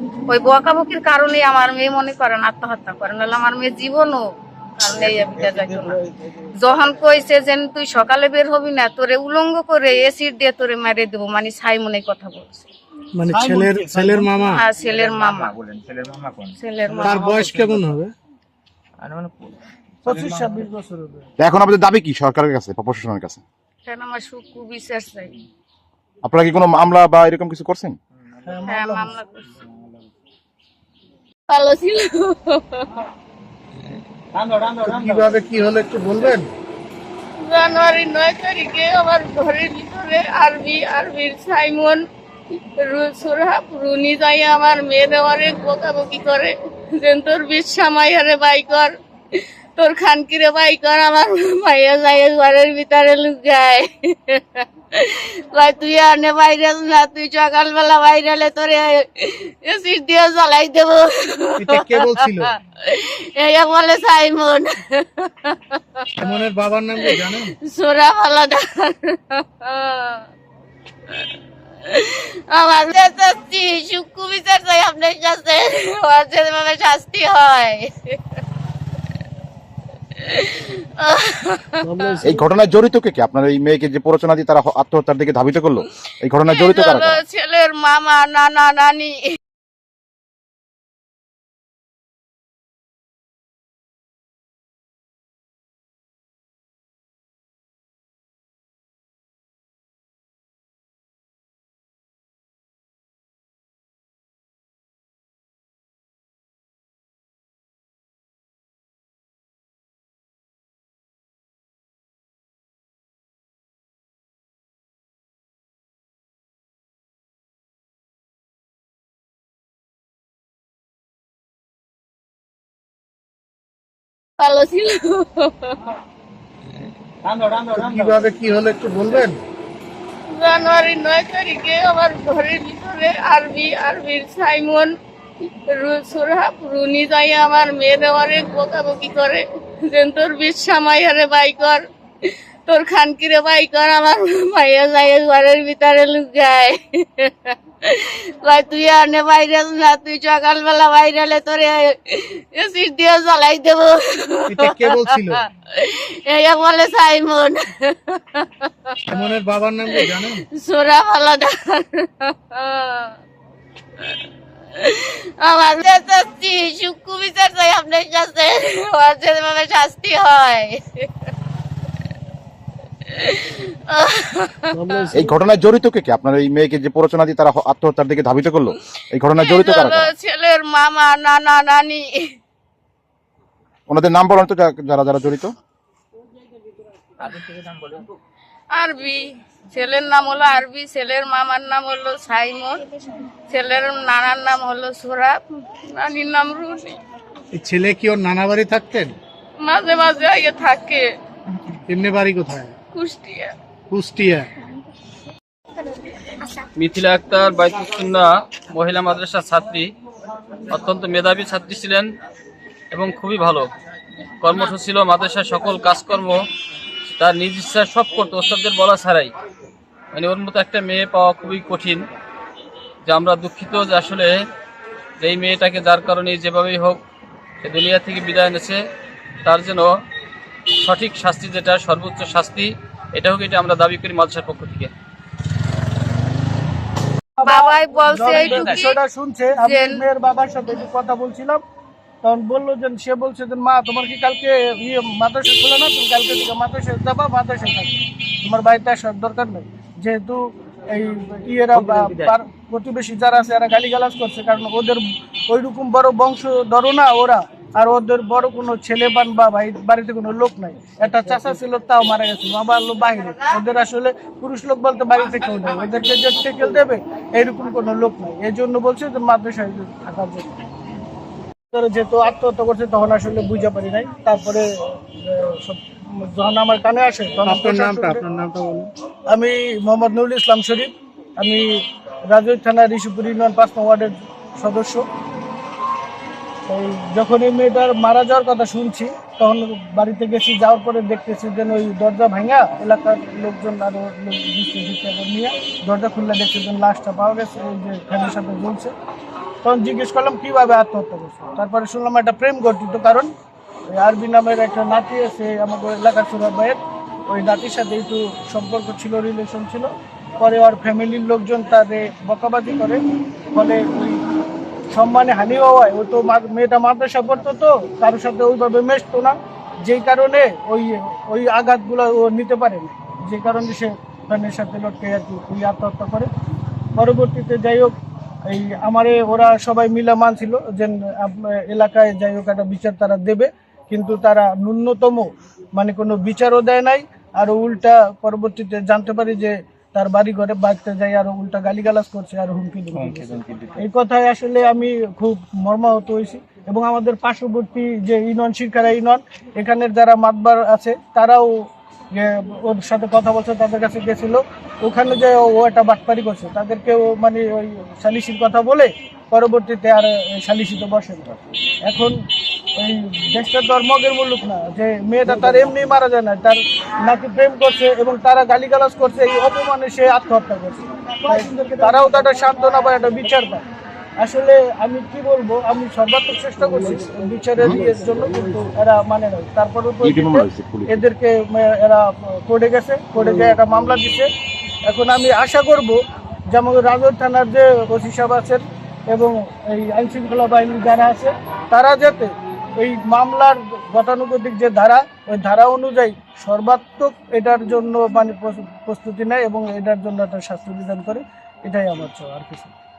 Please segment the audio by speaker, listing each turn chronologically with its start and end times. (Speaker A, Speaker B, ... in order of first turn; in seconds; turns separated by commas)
Speaker A: 0.3-4.2, Speaker A: 4.8-6.0, Speaker A: 6.6-12.7, Speaker B: 13.1-14.6, Speaker A: 14.5-15.6, Speaker C: 14.8-16.5, Speaker A: 16.6-17.4, Speaker B: 17.0-18.1, Speaker C: 17.1-17.9, Speaker C: 19.0-20.6, Speaker D: 20.0-21.3, Speaker E: 21.4-23.4, Speaker A: 23.9-25.3, Speaker E: 26.2-28.0, Speaker D: 28.4-29.2, Speaker A: 28.6-29.3, Speaker A: 31.5-32.9, Speaker B: 34.7-36.5, Speaker A: 37.4-42.0, Speaker A: 42.8-66.2, Speaker B: 61.6-62.5, Speaker B: 66.2-67.5, Speaker A: 67.0-70.2, Speaker A: 71.8-78.2, Speaker A: 80.2-82.0, Speaker C: 81.8-82.4, Speaker E: 82.2-87.2, Speaker A: 86.5-89.2, Speaker A: 124.4-125.8, Speaker B: 127.5-129.4, Speaker A: 130.3-134.9, Speaker A: 135.7-159.0, Speaker B: 154.5-155.4, Speaker B: 159.1-160.4, Speaker A: 159.9-163.2, Speaker A: 164.7-171.1, Speaker A: 173.1-174.7, Speaker E: 175.1-180.1, Speaker A: 179.4-182.2, Speaker E: 183.9-185.5, Speaker C: 187.2-188.1, Speaker A: 188.7-192.8, Speaker A: 193.5-197.0, Speaker B: 197.5-199.1, Speaker A: 199.6-201.1, Speaker B: 201.9-202.8, Speaker A: 202.9-203.5, Speaker B: 203.9-204.5, Speaker F: 206.8-209.9, Speaker F: 210.7-212.1, Speaker F: 212.9-213.7, Speaker F: 214.4-216.4, Speaker F: 217.2-219.3, Speaker F: 220.1-222.0, Speaker F: 223.1-224.3, Speaker F: 225.2-227.0, Speaker F: 227.6-228.8, Speaker F: 229.4-229.9, Speaker F: 230.8-234.9, Speaker D: 237.4-241.6, Speaker A: 237.4-238.9, Speaker F: 238.3-238.7, Speaker A: 239.5-240.0, Speaker D: 242.2-270.5, Speaker C: 251.7-252.3, Speaker D: 271.7-278.2, Speaker B: 277.4-278.9, Speaker D: 279.3-285.0, Speaker D: 286.7-298.9, Speaker D: 299.6-303.3, Speaker D: 303.9-313.0, Speaker D: 313.5-314.2, Speaker D: 314.9-326.3, Speaker D: 326.9-327.9, Speaker D: 328.5-362.2, Speaker C: 342.9-343.7, Speaker D: 362.8-373.6, Speaker D: 374.2-384.3, Speaker E: 380.0-381.0, Speaker D: 384.9-402.7